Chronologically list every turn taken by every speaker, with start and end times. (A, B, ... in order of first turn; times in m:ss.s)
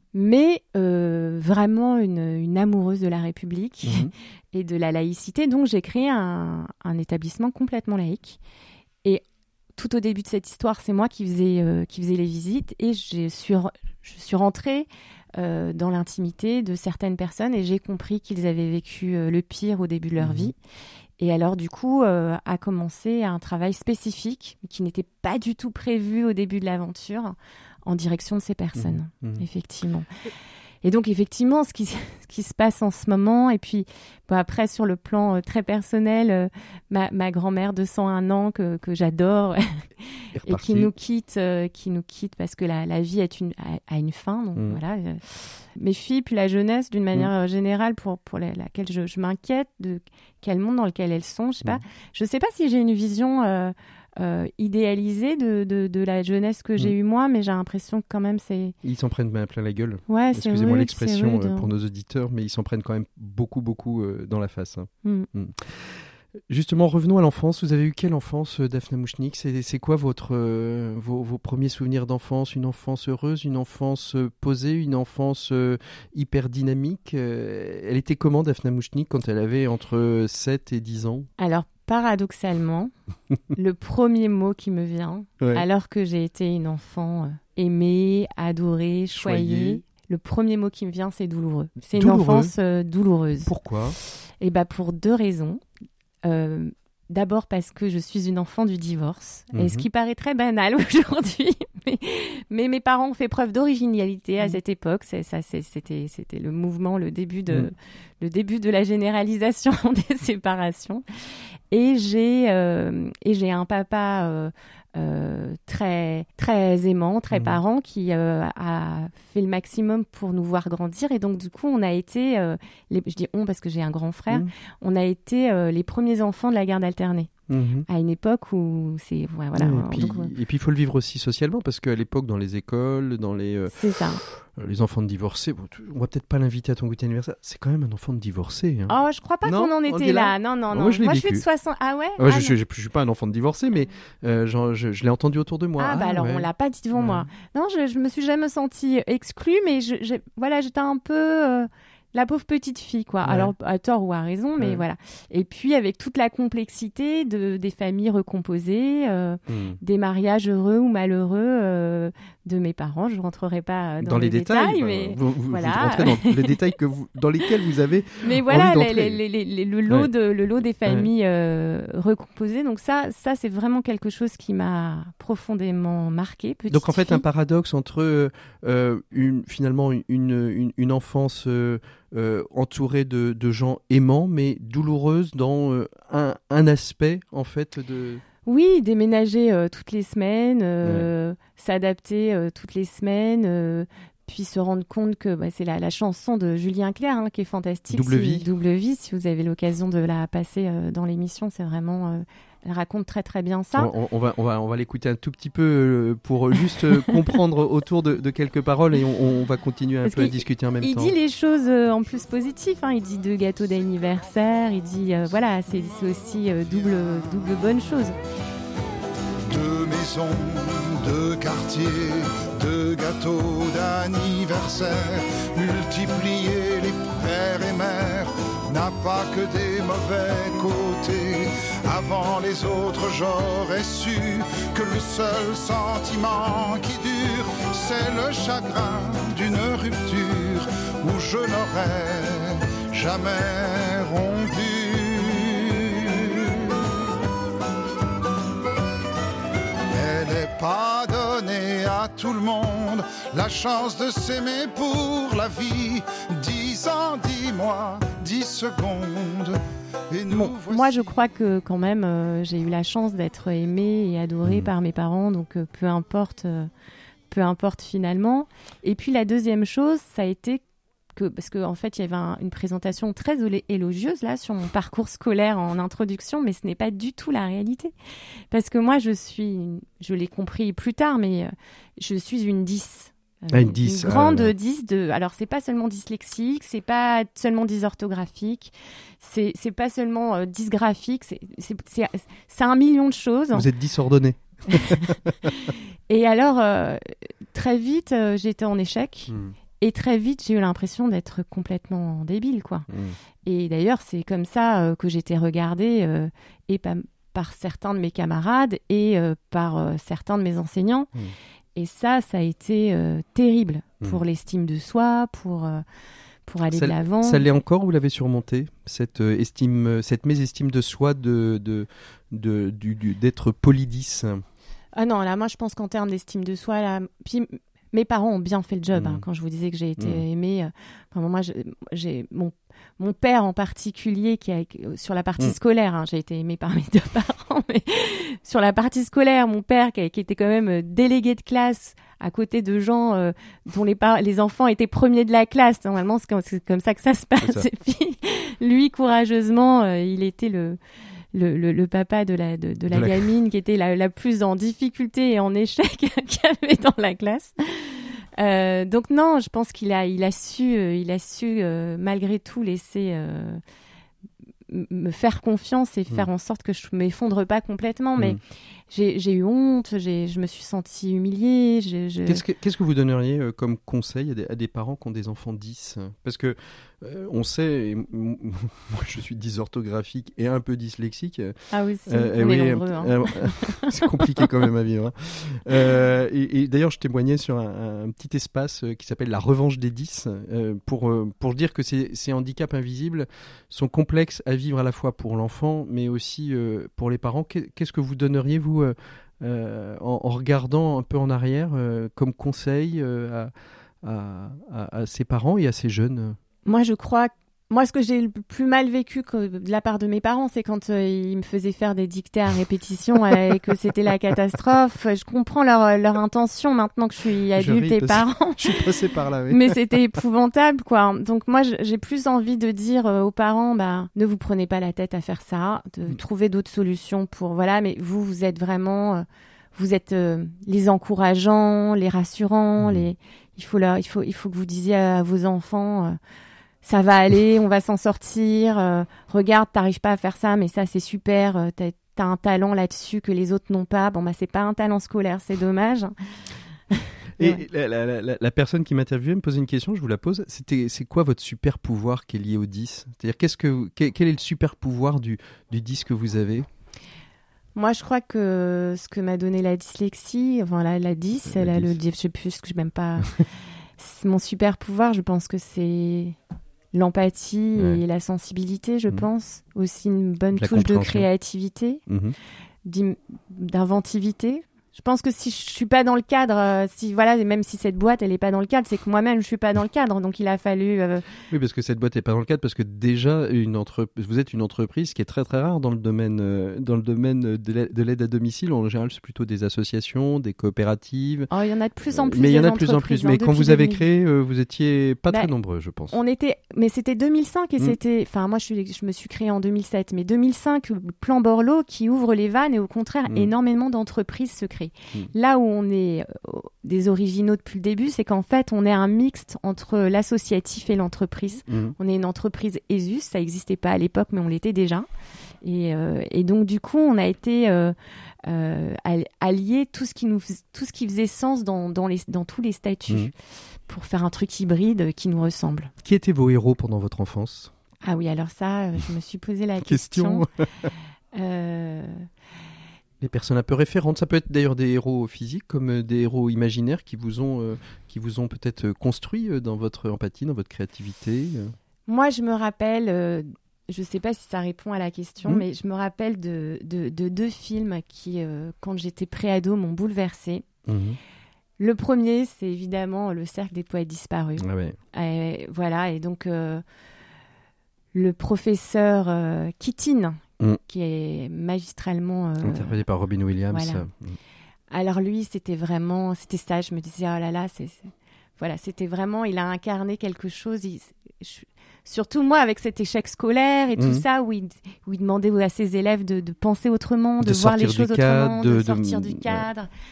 0:00.1-0:08.4 A
0:03.8-0:04.1 B
0:09.8-0:20.6 A
0:20.2-0:20.5 B
0:21.2-0:30.1 A
0:28.8-0:29.4 B
0:30.8-0:58.7 A
0:40.3-0:40.9 B
0:44.6-0:44.8 B
0:58.8-1:21.3 B
1:00.1-1:01.7 A
1:21.4-1:22.9 A
1:23.5-1:33.5 A
1:29.1-1:29.8 B
1:31.9-1:32.5 B
1:33.4-1:34.0 B
1:34.4-1:35.6 A
1:36.2-1:51.0 A
1:39.5-1:39.8 B
1:51.7-2:07.3 A
1:57.3-1:57.6 B
2:07.5-2:07.8 B
2:07.9-2:10.3 A
2:09.6-2:21.4 B
2:13.7-2:14.2 A
2:18.9-2:22.5 A
2:22.2-2:27.3 B
2:25.8-2:46.6 A
2:33.2-2:33.5 B
2:34.6-2:34.8 B
2:39.5-2:39.8 B
2:44.0-2:49.2 B
2:48.2-2:57.2 A
2:56.7-3:08.2 B
3:08.4-3:23.9 A
3:17.9-3:18.4 B
3:23.7-3:31.1 B
3:30.0-3:38.2 A
3:39.5-4:06.6 C
4:09.9-4:19.6 C
4:20.1-4:21.0 C
4:20.3-4:26.7 A
4:24.4-4:24.7 B
4:27.3-4:30.6 A
4:31.1-4:37.9 A
4:38.5-4:53.7 A
4:43.5-4:44.5 B
4:53.5-4:55.5 B
4:54.7-5:02.9 A
4:59.3-4:59.5 B
5:02.9-5:03.2 B
5:03.4-5:11.1 A
5:11.8-5:15.8 A
5:16.5-5:17.4 A
5:16.7-5:24.4 B
5:24.9-5:50.8 A
5:28.9-5:29.2 B
5:30.0-5:30.2 B
5:47.4-5:47.7 B
5:51.3-6:03.6 A
5:52.9-5:53.3 B
6:04.7-6:08.4 A
6:08.9-6:12.4 A
6:12.2-6:43.5 B
6:21.7-6:24.5 A
6:44.0-6:46.4 B
6:46.6-6:58.7 A
6:57.5-6:59.7 B
6:59.5-7:16.2 A
7:12.8-7:13.1 B
7:16.8-7:26.1 A
7:26.9-7:27.6 A
7:27.4-7:36.7 B
7:37.7-7:43.4 A
7:41.4-7:42.0 B
7:44.0-7:46.4 A
7:46.9-7:52.0 A
7:50.5-7:51.3 B
7:52.1-7:52.3 B
7:52.8-8:01.2 A
8:01.5-8:11.5 B
8:11.5-8:14.0 A
8:12.1-8:16.2 B
8:16.1-8:35.1 A
8:31.7-8:31.9 B
8:35.6-8:43.3 A
8:43.9-8:45.9 A
8:46.0-8:47.7 B
8:48.0-8:50.4 A
8:49.8-8:50.6 B
8:51.3-8:52.2 A
8:53.2-9:01.7 B
9:02.1-9:10.6 A
9:10.8-9:11.2 B
9:11.8-9:16.8 A
9:14.6-9:15.0 B
9:18.1-9:23.0 A
9:22.6-9:24.4 B
9:23.7-9:24.0 A
9:24.9-9:39.9 A
9:34.0-9:34.2 B
9:37.4-9:39.6 B